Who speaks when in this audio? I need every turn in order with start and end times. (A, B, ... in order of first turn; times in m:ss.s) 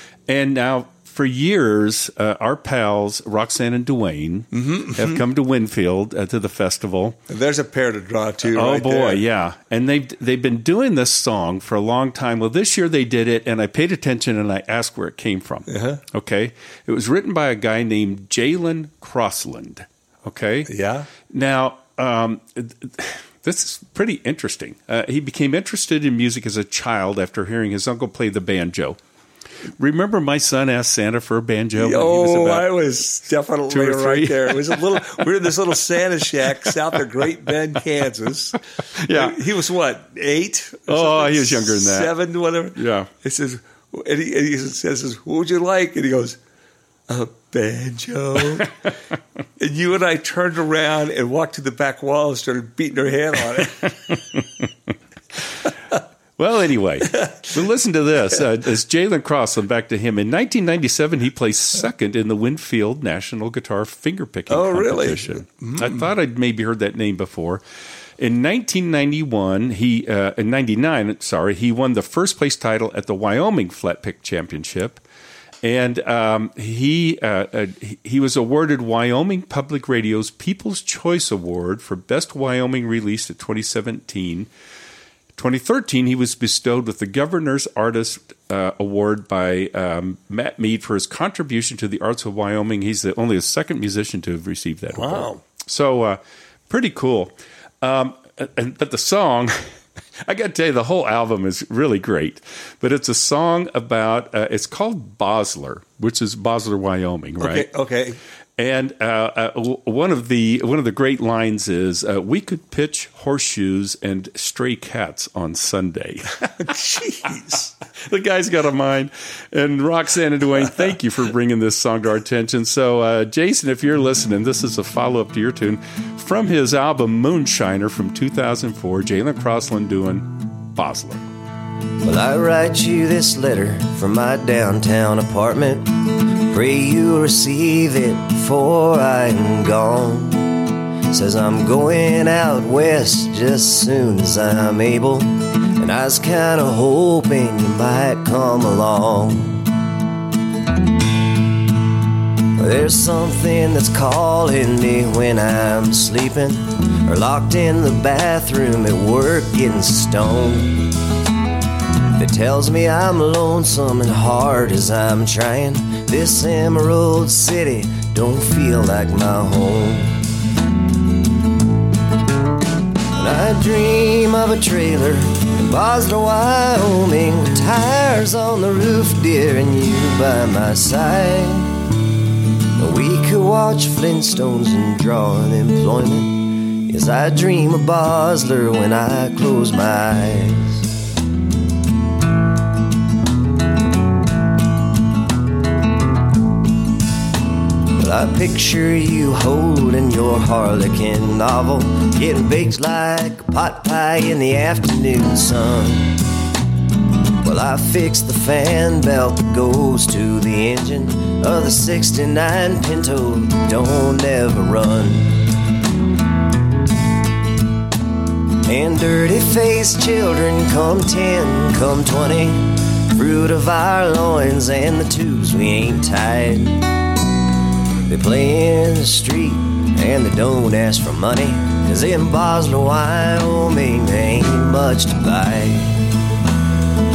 0:00.3-0:07.2 A
0:04.5-0:05.2 B
0:07.3-0:09.2 B
0:08.4-0:20.7 A
0:15.7-0:16.0 B
0:20.7-0:21.1 B
0:21.3-0:29.0 A
0:29.8-0:32.7 A
0:31.8-0:38.6 B
0:33.7-0:35.0 A
0:39.0-0:39.4 A
0:39.1-0:46.4 B
0:40.9-0:42.1 A
0:42.8-0:43.1 A
0:47.1-0:48.7 B
0:49.6-0:53.9 B
0:56.4-1:07.6 A
1:04.5-1:06.1 B
1:08.2-1:15.0 A
1:15.6-1:24.5 A
1:25.4-1:39.6 A
1:34.9-1:35.4 B
1:40.2-1:47.7 A
1:47.4-1:48.2 B
1:48.6-1:56.4 A
1:56.6-1:57.7 B
1:58.0-2:11.2 A
2:12.0-2:20.5 C
2:21.1-2:29.7 C
2:32.6-2:40.9 C
2:42.1-2:50.2 C
2:53.1-3:01.7 C
3:02.8-3:10.9 C
3:18.0-3:26.2 C
3:27.4-3:35.4 C
3:38.6-3:46.8 C
3:48.1-3:56.0 C